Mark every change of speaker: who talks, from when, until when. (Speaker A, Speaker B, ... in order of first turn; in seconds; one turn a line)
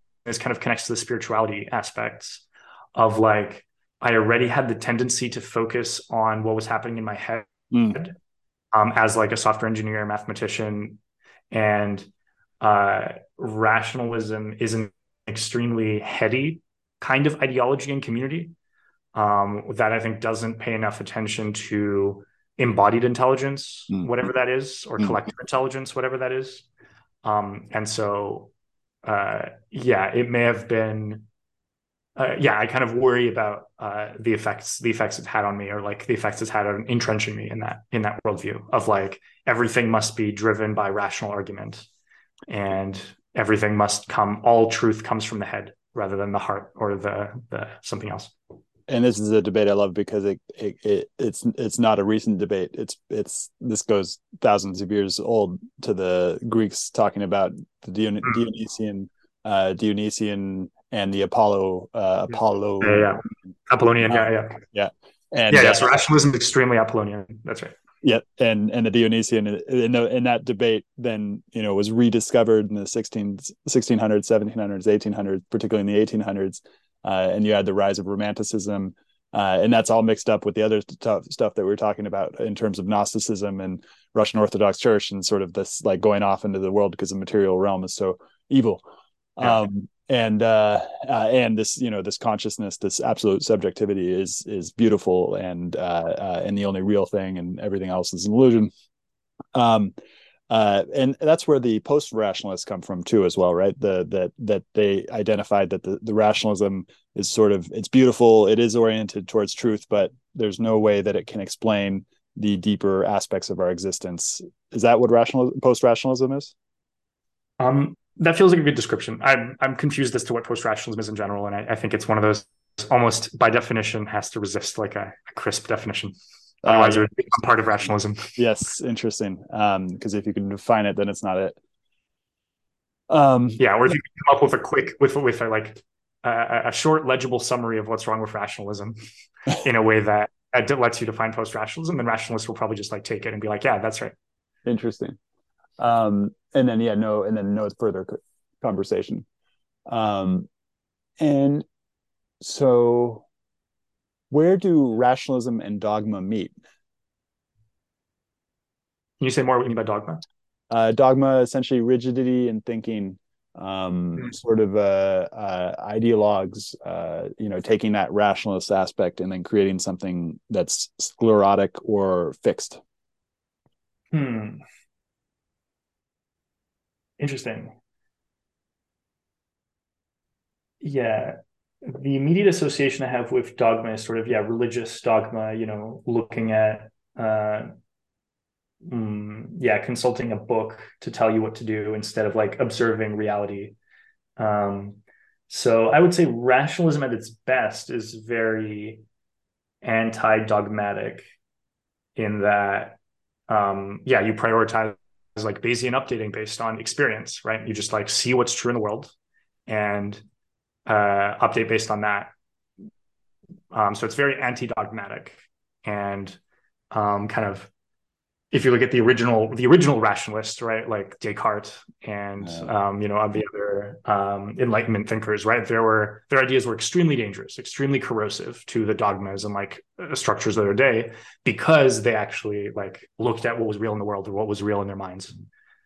Speaker A: 0.2-8.2
Speaker B: 7.7-8.0
Speaker A: 8.7-11.0
Speaker A: 11.5-12.1
Speaker A: 12.6-18.5
Speaker A: 19.1-26.6
Speaker A: 27.2-28.5
Speaker A: 29.0-31.3
Speaker A: 32.1-41.9
Speaker A: 42.5-48.3
Speaker B: 48.9-63.3
Speaker A: 62.8-64.6
Speaker B: 64.1-65.9
Speaker A: 65.5-67.8
Speaker B: 68.0-88.8
Speaker B: 89.4-98.7
Speaker B: 99.5-99.9
Speaker B: 100.5-116.5
Speaker A: 117.6-128.3
Speaker B: 126.6-127.1
Speaker B: 128.4-131.6
Speaker B: 133.1-133.6
Speaker A: 133.6-139.0
Speaker A: 139.6-144.1
Speaker B: 144.7-145.2
Speaker B: 145.8-149.2
Speaker B: 149.9-150.5
Speaker B: 151.2-151.7
Speaker B: 152.4-153.2
Speaker B: 154.3-156.5
Speaker A: 159.2-160.2
Speaker B: 160.7-172.8
Speaker A: 174.1-174.6
Speaker A: 177.2-177.7
Speaker A: 180.8-187.7
Speaker A: 188.8-193.8
Speaker A: 194.4-199.0
Speaker A: 199.8-201.3
Speaker A: 202.2-203.0
Speaker A: 203.5-209.1
Speaker A: 209.7-210.2
Speaker A: 210.8-212.3
Speaker A: 213.7-216.4
Speaker A: 216.9-217.7
Speaker A: 218.5-235.4